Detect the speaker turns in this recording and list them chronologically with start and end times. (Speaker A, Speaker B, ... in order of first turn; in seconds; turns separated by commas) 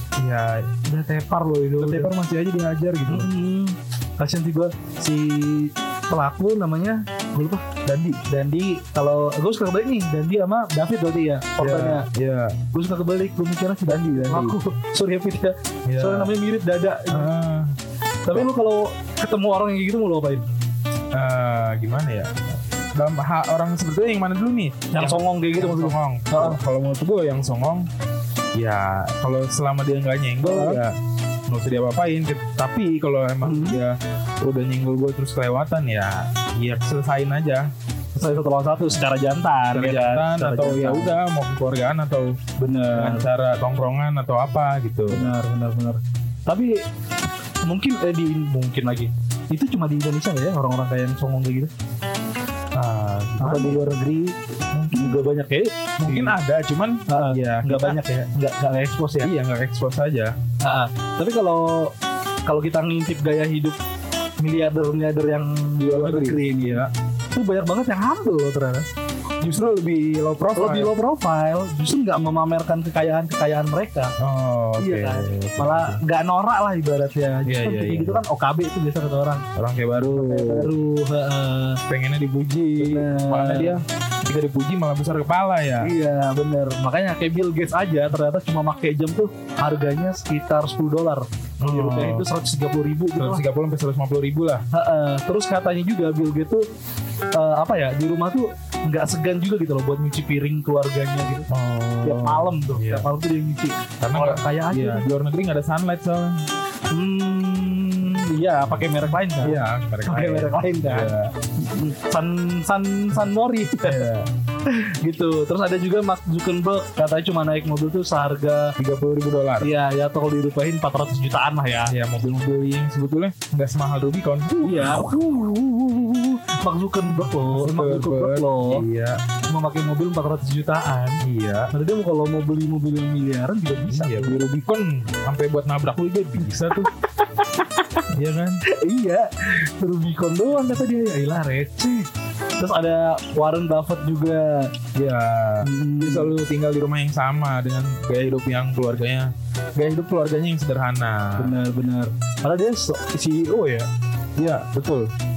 Speaker A: 0.2-0.7, Speaker B: 0.8-2.1, Speaker A: 1.8-3.3, Speaker B: 3.1-7.6, Speaker A: 7.9-8.2, Speaker B: 8.2-12.1, Speaker A: 11.6-12.6, Speaker B: 12.7-17.3, Speaker A: 13.9-14.6, Speaker A: 15.9-16.3, Speaker A: 17.1-17.7, Speaker B: 18.2-20.5, Speaker A: 21.1-22.4, Speaker A: 22.9-27.9, Speaker B: 24.9-26.6, Speaker A: 28.6-30.9, Speaker B: 30.4-30.8, Speaker A: 31.5-37.7, Speaker B: 33.4-33.8, Speaker B: 38.1-41.1, Speaker A: 39.7-42.4, Speaker B: 42.6-43.3, Speaker A: 42.9-45.3, Speaker B: 45.1-46.7, Speaker B: 47.7-51.7, Speaker A: 52.7-53.9, Speaker B: 53.4-54.4, Speaker A: 54.7-55.2, Speaker B: 54.9-56.4, Speaker A: 56.0-58.0, Speaker B: 57.1-59.3, Speaker A: 59.2-60.4, Speaker B: 60.6-61.9, Speaker B: 62.5-63.8, Speaker B: 64.4-68.9, Speaker A: 65.8-66.9, Speaker A: 69.4-70.9, Speaker B: 70.6-74.1, Speaker A: 74.2-76.0, Speaker B: 74.8-81.8, Speaker A: 77.5-78.2, Speaker A: 79.6-80.7, Speaker A: 81.9-85.9, Speaker B: 82.8-83.8, Speaker B: 85.8-93.4, Speaker A: 91.6-92.3, Speaker A: 93.2-94.6, Speaker B: 94.7-96.6, Speaker B: 97.3-101.5, Speaker A: 101.5-103.1, Speaker B: 102.0-105.1, Speaker A: 104.0-106.4, Speaker B: 106.9-114.0, Speaker A: 108.7-111.3, Speaker A: 113.8-114.3, Speaker B: 114.7-118.7, Speaker A: 118.8-119.7, Speaker B: 119.6-121.9, Speaker A: 121.9-125.2, Speaker B: 124.6-128.8, Speaker A: 127.1-129.2, Speaker B: 129.5-134.4, Speaker A: 131.2-131.7, Speaker A: 133.9-136.9, Speaker B: 136.0-138.0, Speaker A: 138.1-138.6, Speaker B: 138.7-144.7, Speaker A: 144.9-151.6, Speaker B: 145.6-146.3, Speaker B: 151.4-153.9, Speaker A: 154.4-155.1